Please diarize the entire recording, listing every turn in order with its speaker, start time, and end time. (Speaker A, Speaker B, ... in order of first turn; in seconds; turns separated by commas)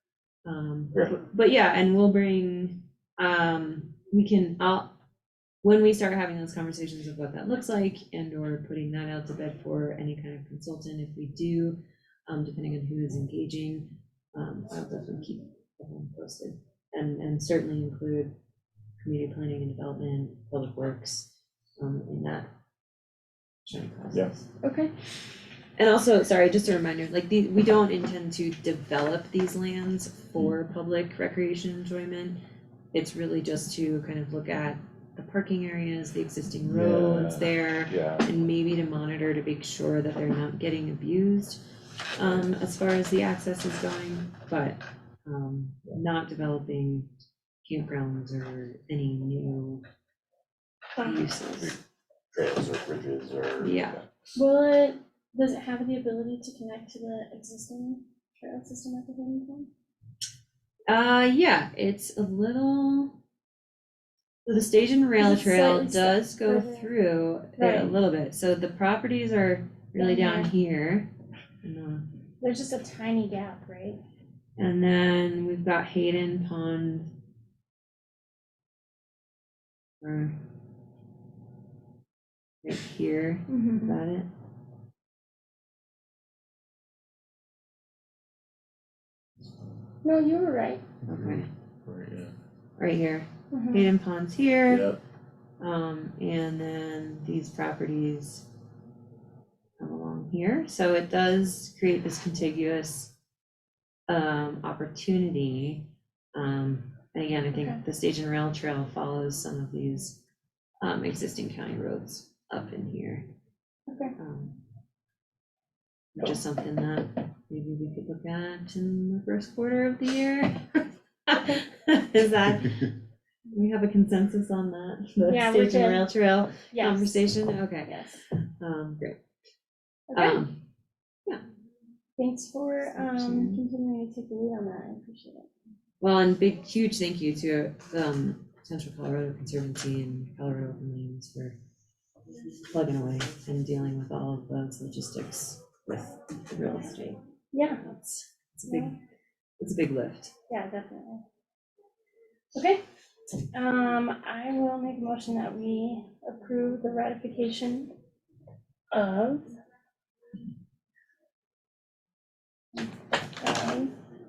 Speaker A: 0.5-4.9, Speaker A: 5.6-18.3, Speaker A: 19.0-22.5, Speaker A: 23.6-24.5, Speaker B: 24.6-24.9, Speaker A: 25.8-32.4, Speaker A: 32.9-41.6, Speaker C: 36.7-38.2, Speaker A: 42.2-47.1, Speaker A: 47.6-49.8, Speaker B: 51.0-51.3, Speaker A: 51.0-51.8, Speaker C: 52.3-53.9, Speaker A: 53.6-54.0, Speaker B: 54.4-59.7, Speaker A: 60.9-63.2, Speaker A: 64.5-71.1, Speaker B: 65.2-66.9, Speaker B: 67.6-68.0, Speaker B: 70.0-70.5, Speaker A: 71.6-72.0, Speaker B: 72.4-74.0, Speaker A: 74.6-77.1, Speaker A: 80.0-80.4, Speaker A: 82.6-84.3, Speaker B: 83.5-84.0, Speaker B: 90.0-90.8, Speaker A: 91.1-91.5, Speaker C: 91.1-92.3, Speaker A: 92.8-94.9, Speaker B: 93.5-93.9, Speaker C: 94.7-95.0, Speaker A: 95.6-98.5, Speaker A: 99.8-103.1, Speaker A: 104.1-110.2, Speaker B: 107.5-107.8, Speaker A: 110.8-113.3, Speaker B: 113.9-114.1, Speaker A: 114.2-114.6, Speaker A: 116.2-122.9, Speaker A: 123.5-127.9, Speaker B: 125.3-126.0, Speaker B: 126.7-127.2, Speaker B: 127.9-128.2, Speaker A: 128.6-129.2, Speaker B: 130.1-130.4, Speaker A: 130.1-130.6, Speaker B: 132.2-135.5, Speaker A: 133.0-133.6, Speaker A: 136.0-141.6, Speaker A: 142.7-147.2, Speaker B: 147.5-147.8, Speaker A: 147.8-149.0, Speaker B: 148.7-148.9, Speaker A: 149.6-150.3, Speaker B: 150.5-151.2, Speaker B: 152.6-152.8, Speaker B: 153.5-157.9, Speaker B: 158.9-159.5, Speaker B: 162.8-163.9